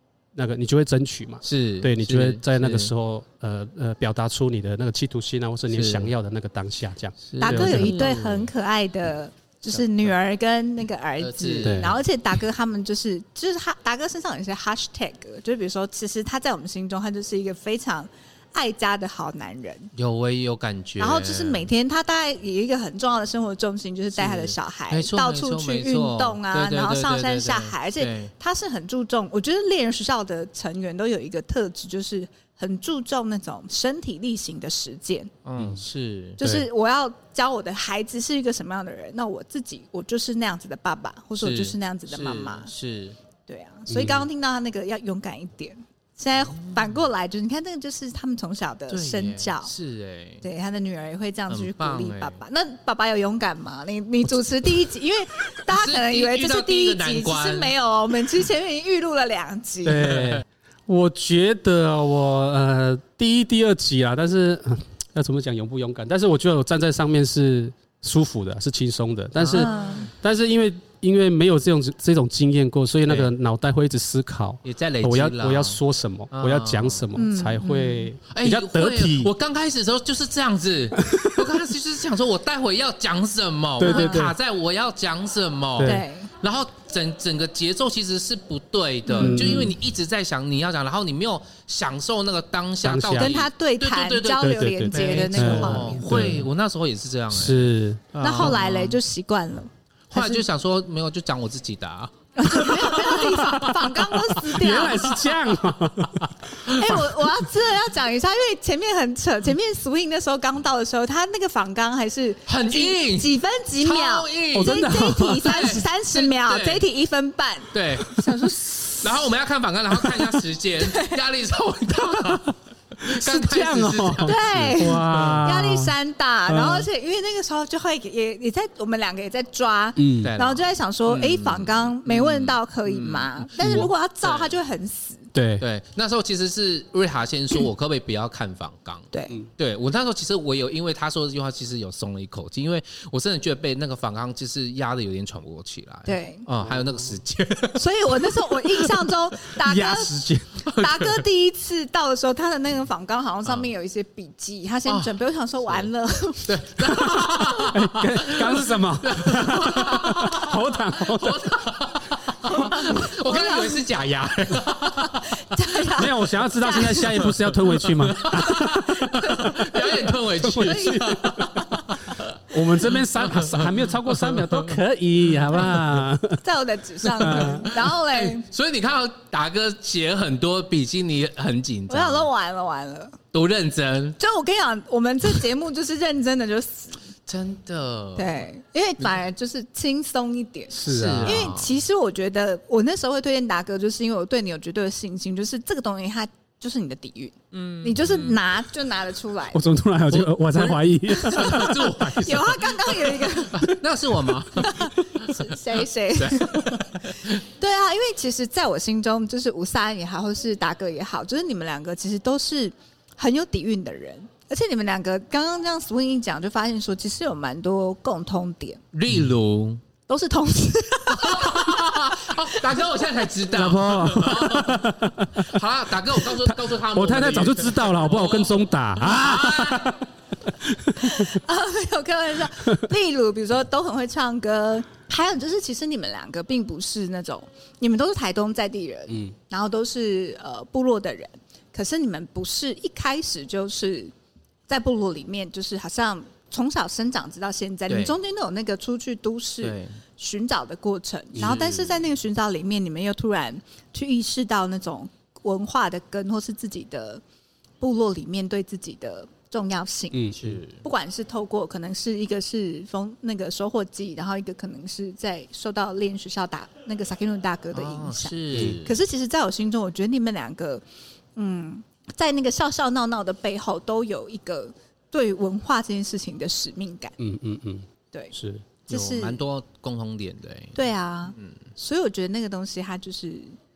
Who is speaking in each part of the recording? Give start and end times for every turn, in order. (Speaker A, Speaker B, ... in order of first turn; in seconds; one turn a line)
Speaker A: 0.3-8.2
Speaker B: 1.4-2.9
Speaker B: 5.7-6.1
Speaker B: 7.3-8.5
Speaker C: 7.4-19.9
Speaker B: 11.2-12.0
Speaker A: 11.6-11.9
Speaker B: 19.9-21.7
Speaker C: 21.0-35.3
Speaker B: 24.1-28.3
Speaker B: 35.4-36.4
Speaker A: 36.4-36.6
Speaker C: 36.4-42.7
Speaker B: 41.4-43.2
Speaker C: 43.5-49.7
Speaker A: 43.9-44.2
Speaker B: 46.6-46.9
Speaker B: 48.9-50.4
Speaker C: 50.4-60.1
Speaker B: 51.5-52.4
Speaker B: 55.6-57.7
Speaker A: 59.8-79.3
Speaker B: 60.1-60.4
Speaker B: 69.3-70.1
Speaker C: 69.5-70.1
Speaker B: 74.6-75.8
Speaker B: 76.3-77.1
Speaker C: 77.2-78.1
Speaker B: 78.3-99.0
Speaker A: 81.0-81.4
Speaker A: 83.8-84.3
Speaker C: 83.8-84.2
Speaker A: 85.8-86.0
Speaker C: 85.8-86.3
Speaker C: 89.0-89.6
Speaker A: 89.2-89.8
Speaker A: 92.8-93.4
Speaker C: 93.2-96.2
Speaker A: 94.4-96.5
Speaker A: 97.3-98.5
Speaker C: 98.2-100.4
Speaker B: 100.1-104.2
Speaker C: 102.3-105.3
Speaker A: 104.5-107.3
Speaker B: 104.9-105.3
Speaker C: 106.7-119.1
Speaker B: 112.5-116.8
Speaker A: 114.5-115.5
Speaker B: 117.7-118.1
Speaker B: 119.0-125.4
Speaker C: 120.8-121.2
Speaker A: 123.0-125.9
Speaker C: 124.2-135.3
Speaker A: 126.5-126.9
Speaker A: 130.0-130.3
Speaker B: 130.2-134.5
Speaker A: 133.6-133.9
Speaker A: 135.3-135.6
Speaker B: 135.6-149.1
Speaker C: 146.1-146.4
Speaker A: 146.7-147.0
Speaker C: 147.8-156.6
Speaker A: 149.6-150.7
Speaker B: 150.7-151.1
Speaker B: 154.9-155.1
Speaker B: 156.4-165.4
Speaker A: 156.8-161.7
Speaker C: 162.4-163.8
Speaker C: 165.0-167.2
Speaker A: 165.9-169.6
Speaker B: 167.1-174.8
Speaker C: 169.0-169.6
Speaker A: 170.1-171.6
Speaker C: 170.6-171.1
Speaker A: 172.5-176.4
Speaker B: 175.3-175.8
Speaker C: 176.4-178.4
Speaker A: 177.2-177.7
Speaker B: 177.2-182.3
Speaker C: 181.9-183.2
Speaker B: 183.3-184.2
Speaker C: 184.2-187.0
Speaker B: 187.2-188.4
Speaker C: 188.2-199.6
Speaker A: 190.7-191.4
Speaker B: 190.9-191.8
Speaker B: 197.5-198.4
Speaker A: 199.5-202.1
Speaker B: 200.1-205.4
Speaker C: 201.2-203.8
Speaker C: 204.6-218.8
Speaker B: 206.1-207.4
Speaker B: 218.9-219.8
Speaker C: 220.1-222.6
Speaker B: 221.1-230.0
Speaker A: 223.4-225.5
Speaker A: 226.2-230.0
Speaker A: 230.6-231.3
Speaker C: 231.0-244.1
Speaker C: 244.7-257.2
Speaker B: 247.9-248.2
Speaker B: 249.6-250.0
Speaker B: 251.3-252.0
Speaker C: 257.8-270.8
Speaker A: 260.1-260.6
Speaker B: 260.3-260.8
Speaker B: 267.7-269.0
Speaker A: 268.5-268.8
Speaker C: 271.4-277.1
Speaker A: 277.2-278.6
Speaker C: 278.9-279.4
Speaker B: 278.9-280.8
Speaker C: 280.7-283.5